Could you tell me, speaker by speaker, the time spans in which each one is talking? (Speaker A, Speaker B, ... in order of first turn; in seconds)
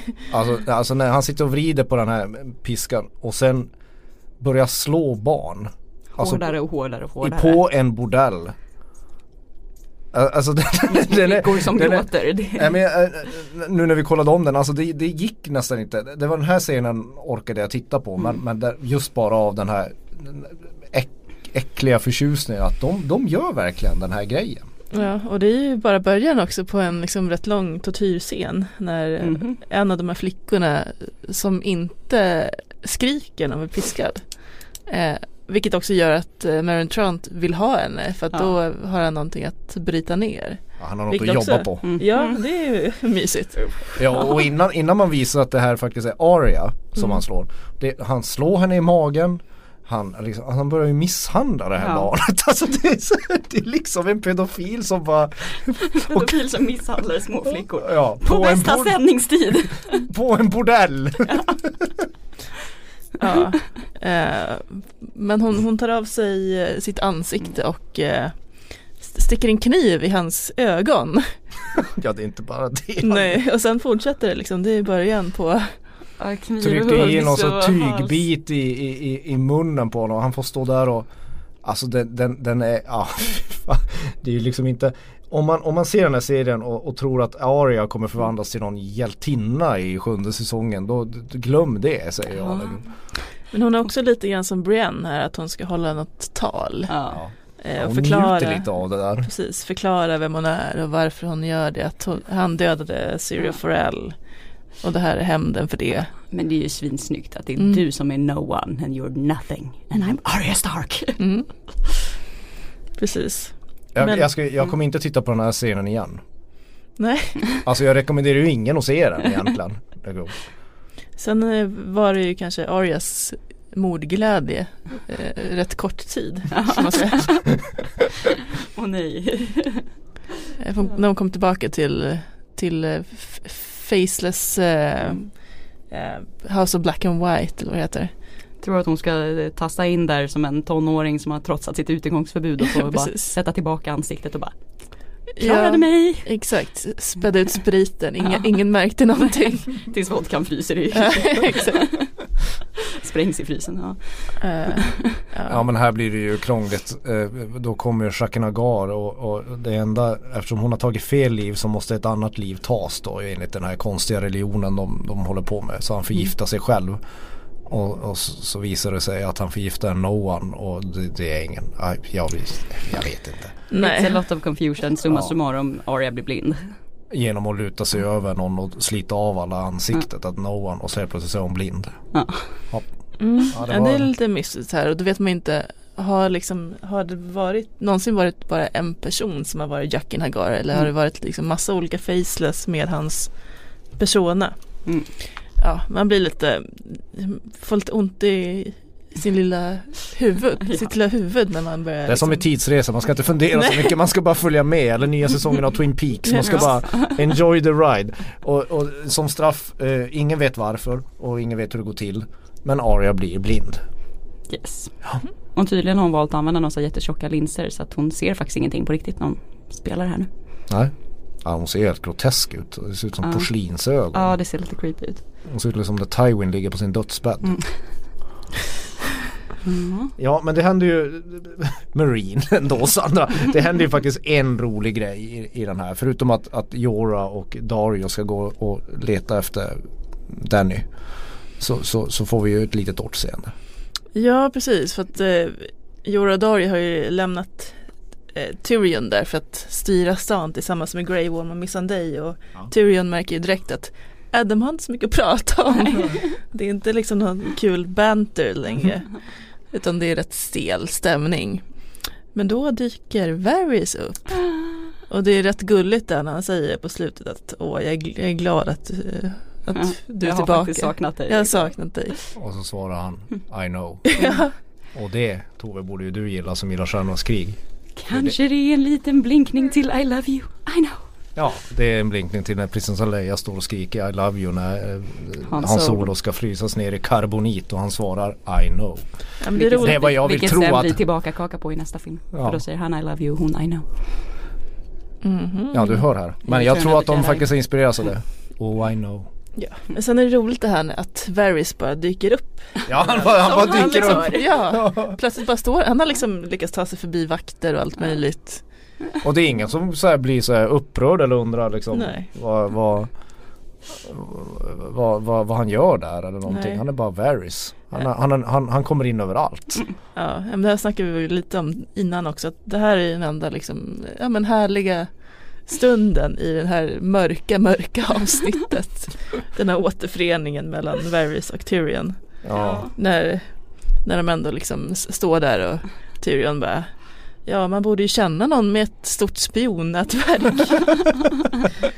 Speaker A: 0.3-3.7, 4.4-6.5, 7.2-8.6, 10.1-24.7, 40.8-42.0, 44.0-56.5, 57.7-59.0, 60.0-61.9, 71.8-73.4, 76.6-81.1, 81.6-92.8, 97.1-99.3, 113.9-116.2, 117.6-120.3, 155.5-167.0, 167.7-173.5, 175.1-175.3, 177.1-182.0, 183.5-184.1, 202.1-213.8, 221.4-224.3, 225.5-227.6, 230.2-240.9, 241.6-243.5, 272.4-274.1, 274.9-277.6, 281.4-291.0, 292.3-292.6, 295.7-299.3, 302.9-305.2, 309.2-313.1, 313.9-319.9, 332.4-332.9
Speaker B: 6.2-7.6, 10.9-12.8, 29.2-29.6, 41.8-42.4, 51.8-52.1, 55.9-60.1, 61.2-61.7, 76.2-78.2, 92.3-92.8, 96.9-97.2, 106.3-111.2, 126.5-127.5, 128.7-129.9, 138.6-144.7, 145.4-146.3, 148.2-148.5, 149.7-152.1, 152.9-155.1, 173.8-176.7, 182.1-182.5, 206.4-207.2, 214.5-214.9, 215.6-220.3, 223.2-223.5, 224.1-225.2, 227.4-227.7, 229.7-230.1, 264.5-264.8, 269.8-272.2, 278.0-281.1, 285.5-286.1, 289.6-293.9, 296.5-297.5, 303.2-304.6, 332.5-332.9
Speaker C: 24.9-44.4, 63.2-68.4, 69.0-71.3, 73.0-75.8, 93.5-96.9, 97.6-104.2, 104.8-106.1, 111.2-111.5, 113.0-114.2, 117.0-117.4, 121.2-127.5, 130.6-138.1, 142.7-143.3, 145.3-149.8, 151.0-151.8, 154.4-155.6, 173.7-174.2, 183.2-194.6, 195.6-202.5, 206.2-206.6, 244.2-247.8, 248.3-259.2, 259.7-261.7, 262.3-264.4, 265.1-272.2, 274.1-274.5, 289.4-290.1, 295.2-296.0, 299.6-308.6, 311.9-312.3, 316.5-316.8, 320.2-325.1, 325.6-341.0